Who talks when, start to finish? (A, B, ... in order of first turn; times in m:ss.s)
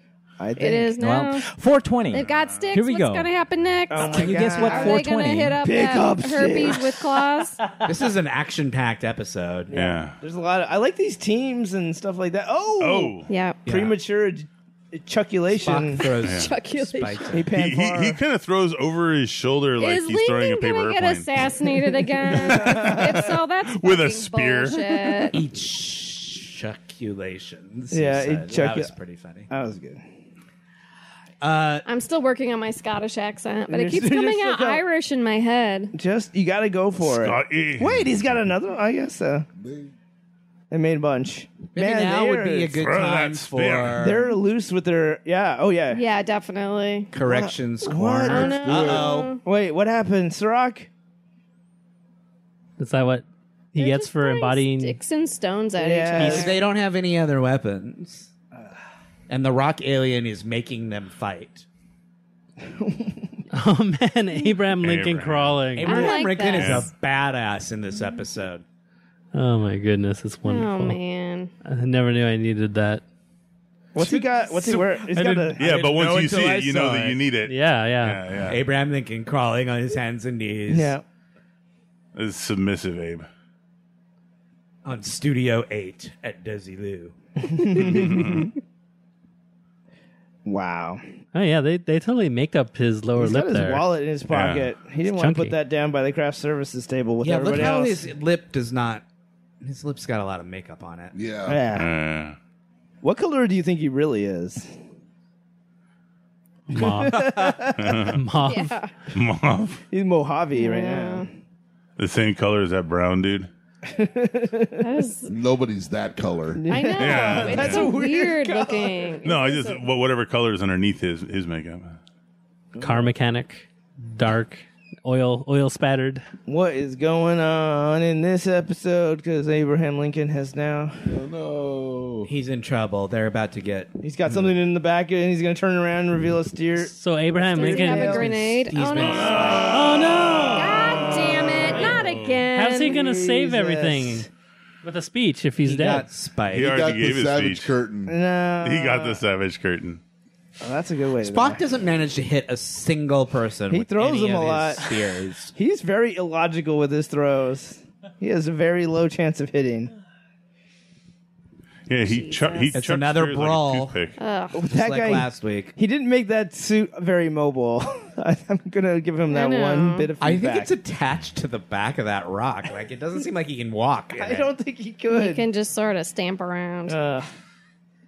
0:00.4-0:00.9 A
0:00.6-0:01.5 B
0:01.0-0:03.3 C
0:02.1-0:07.6 B
0:03.9-0:05.0 A
0:04.0-0:05.6 C
0:05.6-0:07.0 A
0:07.8-0:09.7 D
0:09.7-0:16.0 A
0:09.7-0:10.2 E
0:12.8-0:13.3 E
0:13.3-0:13.6 B
0:13.6-0:14.0 D
0:15.5-0:17.6 D
0:16.0-0:17.3 B
0:16.2-0:16.5 E
0:17.3-0:18.2 A
0:17.5-0:21.4 E
0:19.8-0:25.4 B
0:22.2-0:23.3 A
0:22.3-0:24.8 E
0:25.3-0:29.5 D
0:27.9-0:28.9 A
0:29.5-0:30.0 A
0:31.4-0:31.8 D
0:31.8-0:35.9 B
0:33.7-0:34.8 A
0:35.9-0:39.5 A
0:37.0-0:38.4 E
0:39.6-0:39.9 F
0:40.7-0:42.8 A
0:41.7-0:44.3 D
0:42.8-0:44.0 E
0:44.0-0:46.0 A
0:45.9-0:47.1 B
0:47.1-0:49.4 D
0:47.2-0:50.9 A
0:48.3-0:49.4 B
0:48.6-0:49.1 F
0:52.8-0:55.0 G
0:53.8-0:56.6 B
0:55.8-0:56.5 A
0:56.2-0:58.3 D
0:59.3-1:01.6 D
1:02.8-1:03.3 A
1:03.5-1:06.2 G
1:04.8-1:05.6 E
1:05.7-1:08.6 D
1:05.8-1:06.8 B
1:06.6-1:06.9 E
1:09.3-1:11.0 G
1:10.4-1:11.5 B
1:11.6-1:13.0 G
1:13.9-1:15.6 A
1:14.0-1:17.2 D
1:15.6-1:18.6 E
1:17.4-1:18.2 G
1:18.4-1:20.9 D
1:20.7-1:21.0 A
1:22.1-1:23.3 E
1:24.8-1:27.1 D
1:27.4-1:28.5 A
1:27.7-1:28.5 E
1:30.4-1:31.0 A
1:31.3-1:33.9 G
1:33.2-1:38.1 A
1:34.3-1:34.7 E
1:35.1-1:35.6 G
1:37.2-1:39.0 D
1:39.6-1:41.2 D
1:41.1-1:41.6 F
1:41.4-1:41.9 A
1:41.7-1:42.4 E
1:43.0-1:44.7 A
1:46.7-1:47.5 G
1:46.7-1:48.1 A
1:47.8-1:48.2 E
1:48.1-1:48.8 G
1:48.4-1:48.9 B
1:49.1-1:49.8 E
1:49.9-1:51.3 A
1:50.5-1:51.3 B
1:52.0-1:53.5 E
1:53.9-1:54.8 A
1:54.8-1:55.3 B
1:55.3-1:56.6 F
1:56.6-1:59.2 A
1:56.7-1:59.8 B
1:57.0-1:57.9 E
1:59.2-2:02.0 E
2:02.7-2:03.1 A
2:02.8-2:06.2 G
2:06.5-2:11.1 A
2:11.1-2:12.3 F
2:12.2-2:13.9 D
2:14.0-2:18.5 A
2:16.9-2:18.3 G
2:17.5-2:19.7 B
2:18.5-2:20.0 D
2:19.2-2:24.3 G
2:19.4-2:19.8 E
2:20.5-2:23.0 B
2:21.4-2:21.7 A
2:21.8-2:22.4 E
2:22.8-2:24.2 A
2:24.8-2:26.1 G
2:25.6-2:26.7 D
2:26.5-2:27.7 E
2:26.6-2:28.1 F
2:28.1-2:29.2 A
2:28.6-2:30.0 E
2:30.6-2:31.7 A
2:31.2-2:35.5 D
2:33.7-2:34.9 A
2:35.5-2:39.9 A
2:41.9-2:44.2 E
2:42.0-2:42.8 B
2:42.7-2:44.0 D
2:44.2-2:44.6 B
2:44.5-2:50.7 A
2:44.7-2:45.7 D
2:49.3-2:50.1 B
2:50.2-2:54.5 D
2:54.2-2:55.4 A
2:55.1-2:57.0 B
2:56.9-2:57.3 A